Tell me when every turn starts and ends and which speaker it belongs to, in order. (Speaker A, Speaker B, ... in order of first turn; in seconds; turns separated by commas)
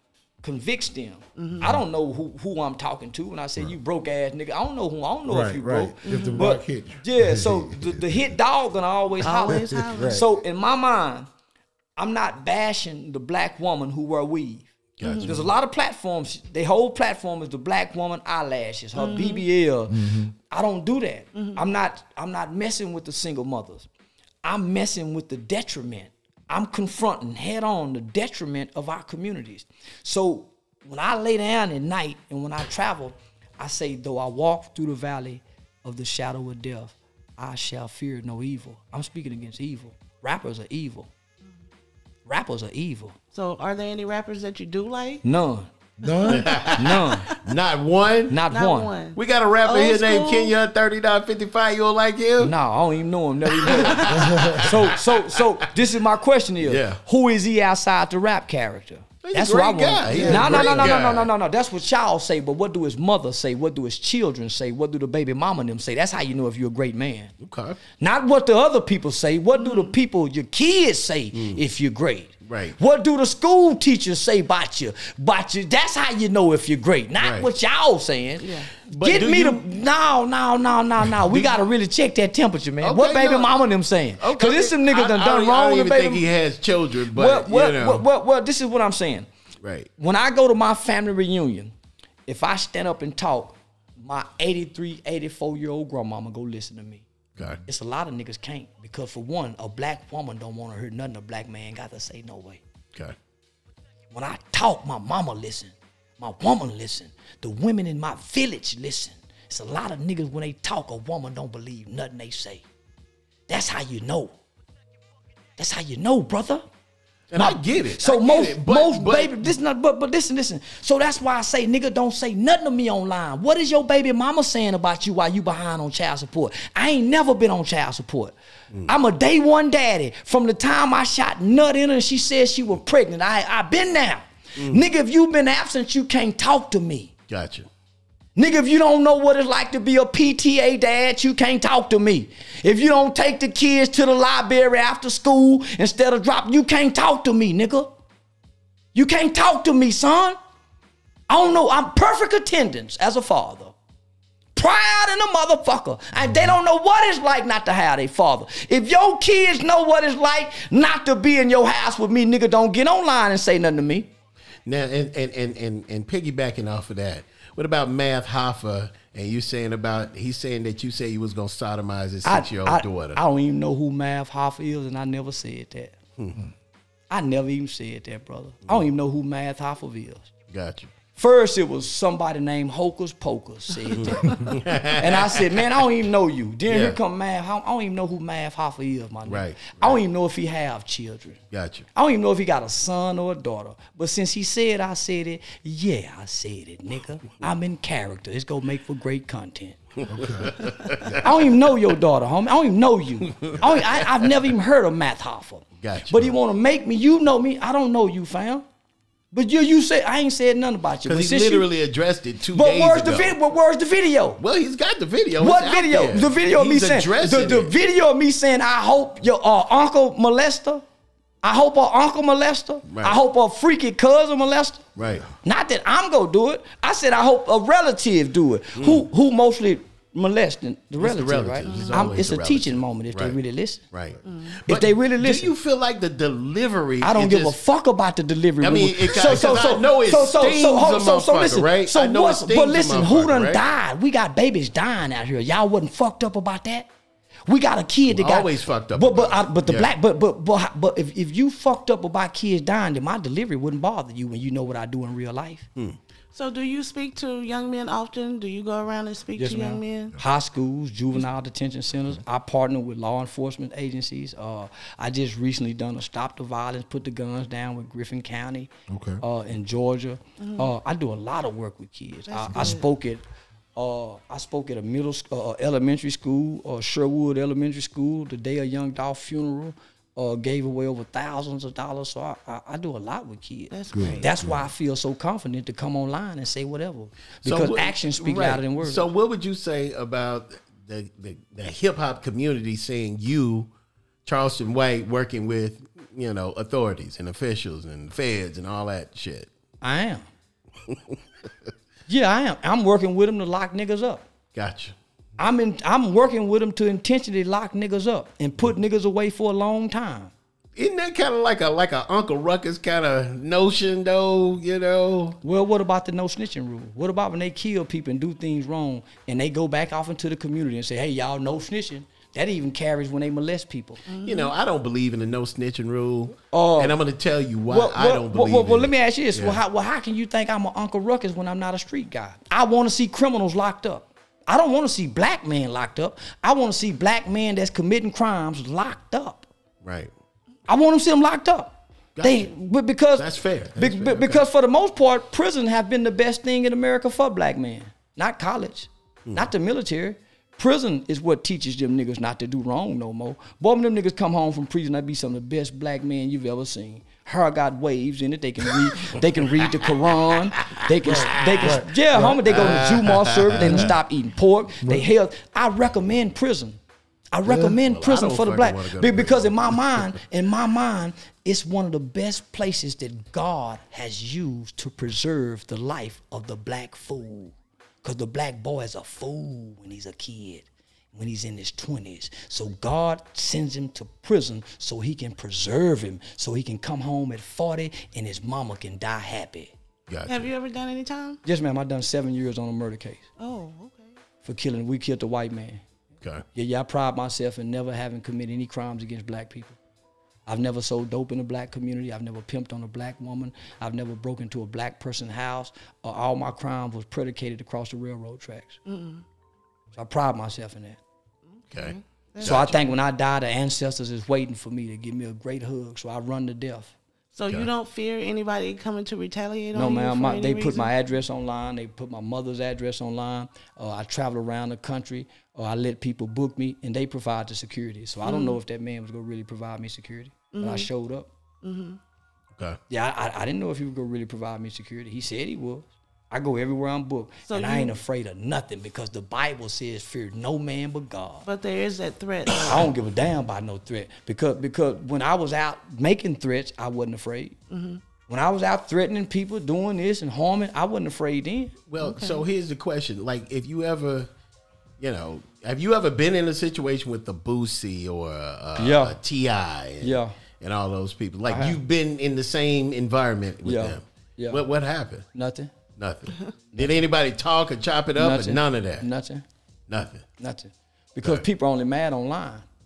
Speaker A: 0.4-11.3, Speaker B: 1.4-1.7, Speaker C: 5.3-8.3, Speaker B: 6.0-6.6, Speaker B: 9.2-10.3, Speaker C: 9.4-10.2, Speaker A: 12.0-23.9, Speaker D: 15.0-15.5, Speaker B: 15.0-15.3, Speaker B: 19.0-19.4, Speaker C: 19.9-20.3, Speaker B: 21.4-21.6, Speaker A: 24.4-41.1, Speaker A: 42.3-43.2, Speaker B: 43.3-45.2, Speaker A: 45.2-45.7, Speaker C: 46.0-46.7, Speaker B: 46.0-47.4, Speaker D: 46.3-48.4, Speaker A: 46.8-47.3, Speaker A: 48.3-48.9, Speaker B: 48.5-50.6, Speaker D: 49.1-52.5, Speaker A: 52.4-67.3, Speaker D: 53.6-55.2, Speaker C: 54.2-54.6, Speaker D: 56.6-57.0, Speaker D: 59.2-61.3, Speaker C: 60.1-61.0, Speaker D: 67.4-67.8, Speaker A: 68.0-86.2, Speaker B: 69.6-69.9, Speaker D: 71.3-71.6, Speaker D: 72.5-72.8, Speaker D: 77.2-77.5, Speaker B: 78.4-78.7, Speaker D: 78.9-79.7, Speaker D: 81.2-81.5, Speaker D: 82.8-83.5, Speaker D: 84.2-88.0, Speaker A: 87.1-89.3, Speaker D: 89.6-89.9, Speaker A: 90.0-91.8, Speaker A: 92.3-97.1, Speaker D: 97.4-97.6, Speaker A: 97.7-102.6, Speaker A: 104.1-112.7, Speaker A: 113.5-114.4, Speaker A: 115.6-116.7, Speaker D: 117.3-119.5, Speaker A: 117.4-128.3, Speaker A: 128.9-137.1, Speaker D: 134.6-134.8, Speaker D: 137.3-137.7, Speaker A: 138.4-147.9, Speaker A: 148.9-150.4, Speaker A: 151.3-153.7, Speaker A: 154.6-164.1, Speaker D: 164.7-173.2, Speaker A: 172.2-176.0, Speaker A: 177.1-180.3, Speaker D: 180.5-180.9, Speaker A: 181.2-191.4, Speaker D: 183.9-185.8, Speaker D: 186.7-187.0, Speaker D: 189.3-190.0, Speaker D: 191.5-191.9, Speaker A: 191.9-199.8, Speaker C: 200.1-200.6, Speaker D: 200.3-201.2, Speaker A: 201.1-208.7, Speaker D: 203.3-204.3, Speaker D: 205.8-206.3, Speaker A: 209.3-211.7, Speaker D: 211.1-213.3, Speaker A: 212.5-214.4, Speaker D: 214.4-217.7, Speaker A: 215.4-220.8, Speaker A: 221.4-224.9, Speaker D: 222.9-223.2, Speaker D: 225.0-225.3, Speaker A: 225.4-233.8, Speaker D: 228.8-229.1, Speaker D: 231.0-233.4, Speaker B: 231.7-232.1, Speaker D: 233.9-237.6, Speaker B: 234.2-234.6, Speaker A: 234.7-235.5, Speaker A: 237.0-246.9, Speaker D: 238.6-243.6, Speaker A: 247.5-255.7, Speaker D: 248.1-249.9, Speaker B: 256.3-260.2, Speaker A: 259.4-268.7, Speaker C: 268.9-269.2, Speaker A: 269.2-273.2, Speaker B: 270.4-270.7, Speaker B: 272.3-272.9, Speaker A: 273.8-289.1, Speaker B: 283.7-284.3, Speaker C: 283.9-284.6, Speaker D: 287.4-293.7, Speaker D: 294.2-299.5, Speaker A: 299.8-300.3, Speaker D: 300.9-301.2, Speaker A: 302.1-304.3, Speaker D: 304.6-305.0, Speaker A: 305.4-310.3, Speaker D: 310.8-315.4, Speaker A: 315.4-324.0, Speaker B: 324.1-324.5, Speaker D: 324.2-329.6, Speaker A: 326.5-326.9, Speaker A: 327.7-339.5, Speaker D: 339.8-340.1, Speaker A: 340.7-366.8, Speaker D: 342.2-342.5, Speaker D: 343.2-344.4, Speaker D: 360.6-361.8, Speaker C: 361.0-362.8, Speaker D: 362.5-363.9, Speaker C: 363.6-363.9, Speaker A: 367.3-389.7, Speaker C: 367.5-367.8, Speaker D: 367.6-370.1, Speaker D: 390.1-390.5, Speaker B: 390.3-391.4, Speaker A: 391.4-393.2, Speaker B: 393.4-394.1, Speaker A: 394.4-395.8, Speaker A: 396.5-399.8, Speaker A: 400.5-408.8, Speaker B: 408.9-409.2, Speaker A: 409.9-411.0, Speaker B: 411.6-412.8, Speaker D: 411.7-412.8, Speaker A: 412.4-416.9, Speaker B: 417.3-420.9, Speaker A: 419.7-431.3, Speaker B: 428.2-428.6, Speaker B: 430.5-430.9, Speaker B: 431.6-432.0, Speaker A: 432.9-441.5, Speaker B: 437.5-437.9, Speaker B: 441.5-442.9, Speaker A: 442.6-447.6, Speaker B: 447.7-448.0, Speaker A: 448.3-451.8, Speaker D: 451.9-454.3, Speaker B: 452.0-452.4, Speaker D: 455.0-465.3, Speaker A: 458.8-459.2, Speaker A: 460.0-460.4, Speaker A: 461.5-461.8, Speaker A: 463.6-464.6, Speaker A: 465.3-465.7, Speaker D: 466.0-469.1, Speaker A: 466.7-467.1, Speaker A: 468.2-469.4, Speaker D: 469.9-470.3, Speaker A: 470.4-472.7